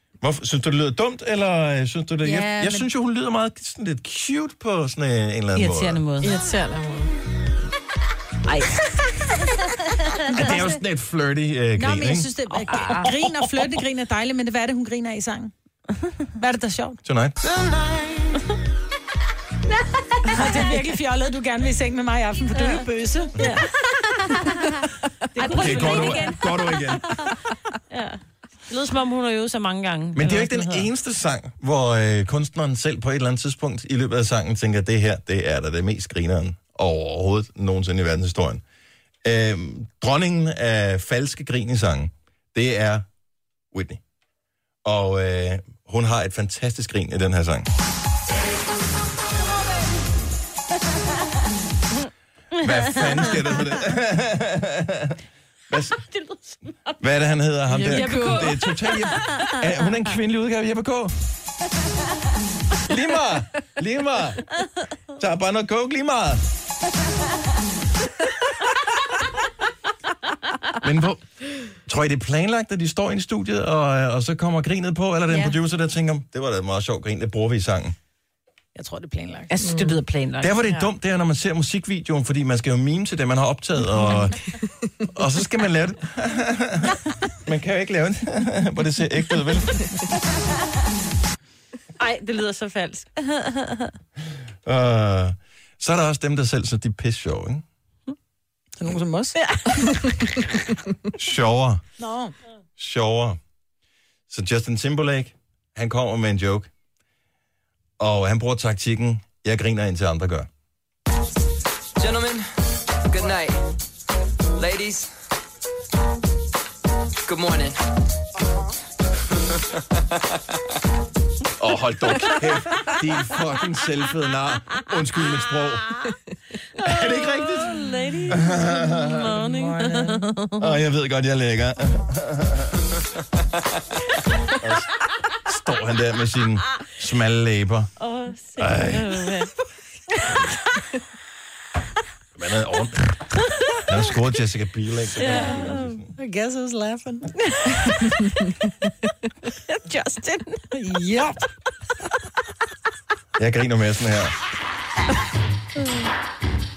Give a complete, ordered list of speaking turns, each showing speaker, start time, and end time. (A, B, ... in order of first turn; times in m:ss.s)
0:00.2-0:06.0 A
0:02.2-0:02.9 B
0:05.5-0:06.4 C
0:06.2-0:07.1 D
0:08.4-0:08.8 C
0:09.4-0:10.6 C
0:10.3-0:12.3 A
0:11.8-0:15.5 B
0:12.7-0:13.1 C
0:16.4-0:17.0 B
0:17.0-0:17.4 A
0:20.2-0:23.5 B
0:23.4-0:23.7 C
0:24.2-0:24.5 C
0:25.3-0:26.4 B
0:25.4-0:27.3 C
0:25.5-0:27.3 A
0:27.9-0:30.9 C
0:30.1-0:38.6 A
0:39.2-0:43.0 A
0:43.7-0:44.0 A
0:44.8-0:47.7 A
0:52.6-0:55.2 A
0:55.7-0:56.0 A
0:56.1-0:56.9 C
0:57.0-1:01.2 A
0:57.7-0:58.6 D
0:57.8-0:59.9 C
1:02.8-1:04.5 A
1:05.2-1:06.4 A
1:10.8-1:18.0 A
1:18.7-1:19.5 B
1:19.5-1:20.6 C
1:19.6-1:20.0 D
1:20.4-1:24.4 A
1:25.1-1:29.9 A
1:32.0-1:33.9 C
1:34.6-1:37.6 A
1:38.8-1:39.4 B
1:39.4-1:39.9 C
1:41.2-1:41.8 A
1:42.0-1:42.3 B
1:42.8-1:43.4 A
1:44.3-1:46.7 A
1:48.0-1:50.5 A
1:52.0-1:52.5 E
1:53.0-1:53.6 E
1:54.6-1:55.1 E
1:57.2-1:57.8 E
2:01.6-2:06.0 A
2:06.8-2:09.2 A
2:06.8-2:10.8 C
2:09.0-2:10.3 B
2:10.6-2:12.8 A
2:14.6-2:17.9 A
2:18.0-2:19.5 C
2:18.6-2:19.2 A
2:22.3-2:23.3 A
2:23.8-2:26.1 A
2:25.2-2:26.0 C
2:26.2-2:28.1 B
2:27.5-2:27.9 C
2:29.7-2:30.6 C
2:30.7-2:31.4 B
2:33.4-2:34.3 A